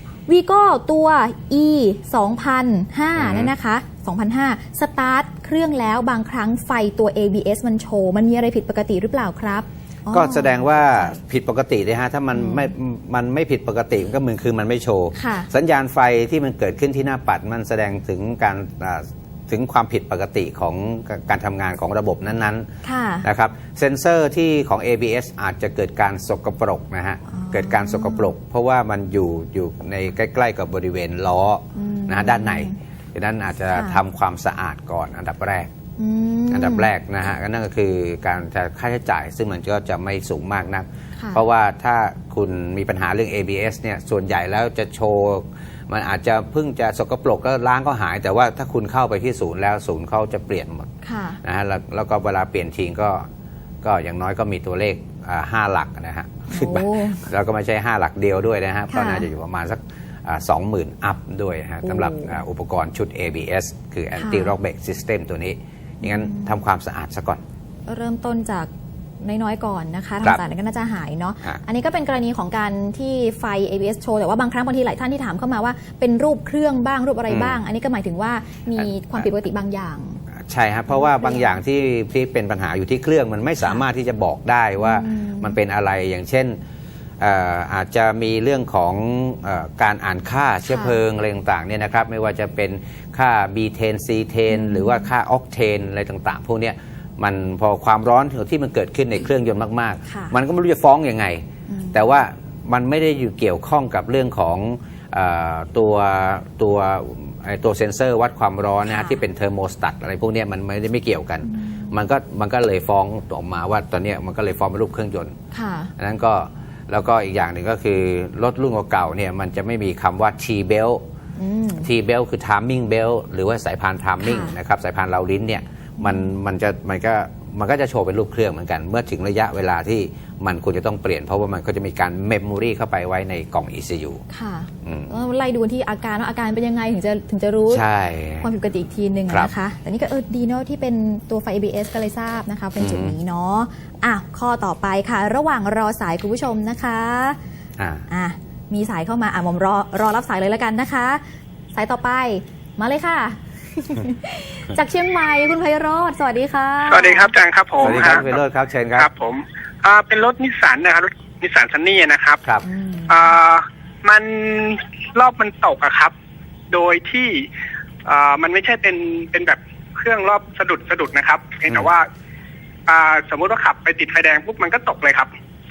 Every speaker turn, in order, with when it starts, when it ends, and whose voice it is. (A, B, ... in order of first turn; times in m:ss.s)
0:00.3-0:11.2 A
0:03.2-0:03.5 B
0:10.1-0:22.7 B
0:12.3-0:12.7 A
0:15.2-0:15.5 A
0:22.8-0:23.3 A
0:23.2-0:35.7 B
0:27.3-0:28.3 A
0:31.8-0:32.8 A
0:33.7-0:34.0 A
0:36.0-0:36.9 A
0:36.5-0:50.9 B
0:41.2-0:41.4 A
0:51.0-0:51.4 A
0:51.4-0:53.3 B
0:53.8-1:07.4 B
0:56.5-0:57.2 A
0:58.9-0:59.3 A
1:01.8-1:02.4 A
1:04.2-1:04.5 A
1:06.0-1:06.6 A
1:07.9-1:08.7 A
1:09.2-1:20.2 A
1:17.3-1:17.6 B
1:20.4-1:26.6 B
1:20.9-1:21.6 A
1:24.8-1:25.6 A
1:27.2-1:55.4 B
1:30.7-1:31.0 A
1:34.5-1:35.1 A
1:40.1-1:40.3 A
1:41.7-1:42.0 A
1:48.9-1:49.2 A
1:51.4-1:52.0 A
1:55.5-1:55.9 A
1:56.0-2:01.0 B
2:01.4-2:01.9 A
2:01.8-2:14.2 B
2:04.2-2:04.6 A
2:06.0-2:06.3 A
2:14.3-2:17.8 A
2:14.8-2:15.1 B
2:17.7-2:18.5 B
2:18.4-2:27.4 A
2:22.8-2:23.2 B
2:27.8-2:28.0 B
2:28.1-2:31.2 A
2:31.7-2:38.3 A
2:36.9-2:38.3 C
2:37.8-2:39.1 B
2:39.0-2:42.4 C
2:42.6-2:43.4 A
2:43.1-2:46.1 C
2:46.7-2:47.5 C
2:48.0-2:52.1 C
2:52.9-2:55.3 C